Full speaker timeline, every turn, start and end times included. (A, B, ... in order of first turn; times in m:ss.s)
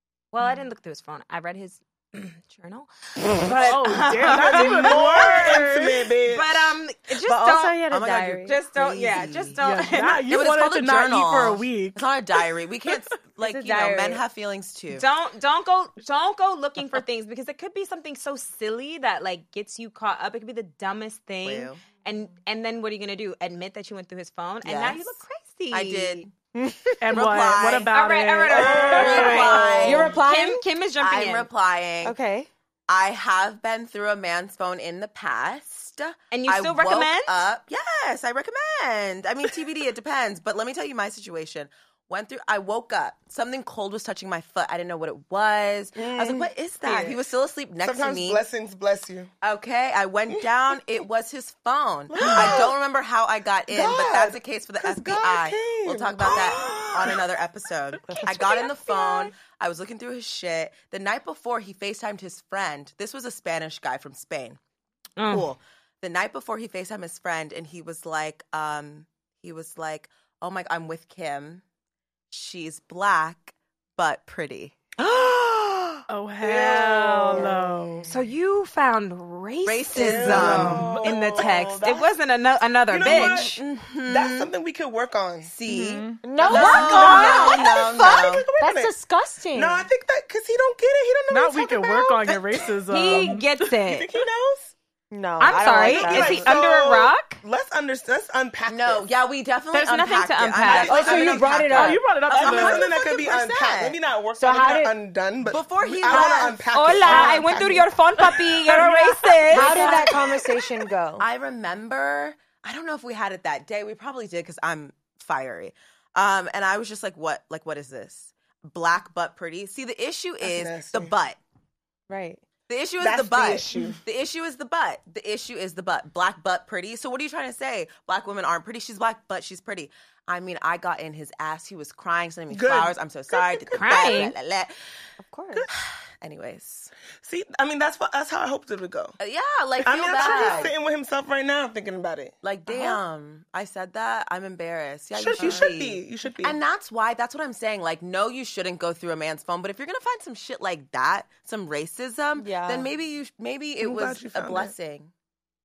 0:00.3-0:05.6 A
0:03.5-0:06.0 B
0:04.2-0:06.8 C
0:06.2-0:07.9 A
0:07.3-0:08.6 D
0:07.9-0:09.6 E
0:08.4-0:10.2 A
0:09.6-0:12.9 B
0:10.3-0:15.0 E
0:13.4-0:14.2 D
0:14.9-0:26.2 A
0:21.4-0:21.8 E
0:24.6-0:25.2 E
0:25.7-0:26.3 E
0:26.6-0:27.1 D
0:27.0-0:29.6 B
0:27.1-0:27.9 E
0:27.9-0:31.5 A
0:28.5-0:30.2 E
0:28.5-0:30.1 C
0:29.8-0:30.6 D
0:31.0-0:32.2 E
0:32.0-0:32.5 D
0:32.9-0:48.4 E
0:36.3-0:37.5 A
0:46.0-0:47.0 C
0:47.8-0:49.3 C
0:49.4-1:04.6 E
0:52.1-0:52.8 C
0:53.7-0:57.2 C
1:05.2-1:05.5 A
1:05.3-1:11.6 E
1:12.3-1:16.0 E
1:16.1-1:18.1 B
1:16.4-1:17.6 C
1:18.1-1:23.6 A
1:19.6-1:21.6 E
1:20.0-1:22.2 C
1:20.3-1:21.0 B
1:22.9-1:25.5 C
1:23.0-1:24.5 E
1:25.4-1:28.5 E
1:25.7-1:27.4 B
1:26.2-1:29.9 D
1:26.4-1:28.9 C
1:26.5-1:27.4 A
1:29.5-1:32.8 C
1:31.3-1:33.8 B
1:32.9-1:34.1 A
1:33.8-1:34.7 C
1:35.1-1:36.5 D
1:35.4-1:37.4 A
1:35.7-1:39.1 C
1:38.7-1:44.0 E
1:39.7-1:41.2 A
1:40.7-1:41.5 C
1:40.8-1:42.0 D
1:41.7-1:42.9 B
1:42.3-1:47.9 C
1:44.4-1:45.0 D
1:45.4-1:47.3 E
1:46.1-1:46.6 D
1:46.7-1:50.2 A
1:48.3-1:49.6 B
1:49.5-1:51.2 D
1:49.5-1:50.4 E
1:51.2-2:01.4 E
2:00.4-2:01.1 C
2:02.1-2:02.4 D
2:02.7-2:14.7 E
2:03.0-2:04.0 C
2:12.5-2:14.2 C
2:13.7-2:14.3 A
2:15.2-2:15.7 D
2:15.7-2:16.9 E
2:17.2-2:19.2 C
2:19.2-2:20.7 E
2:19.8-2:22.8 C
2:22.4-2:35.1 E
2:25.1-2:26.6 C
2:32.4-2:32.9 D
2:33.8-2:34.7 C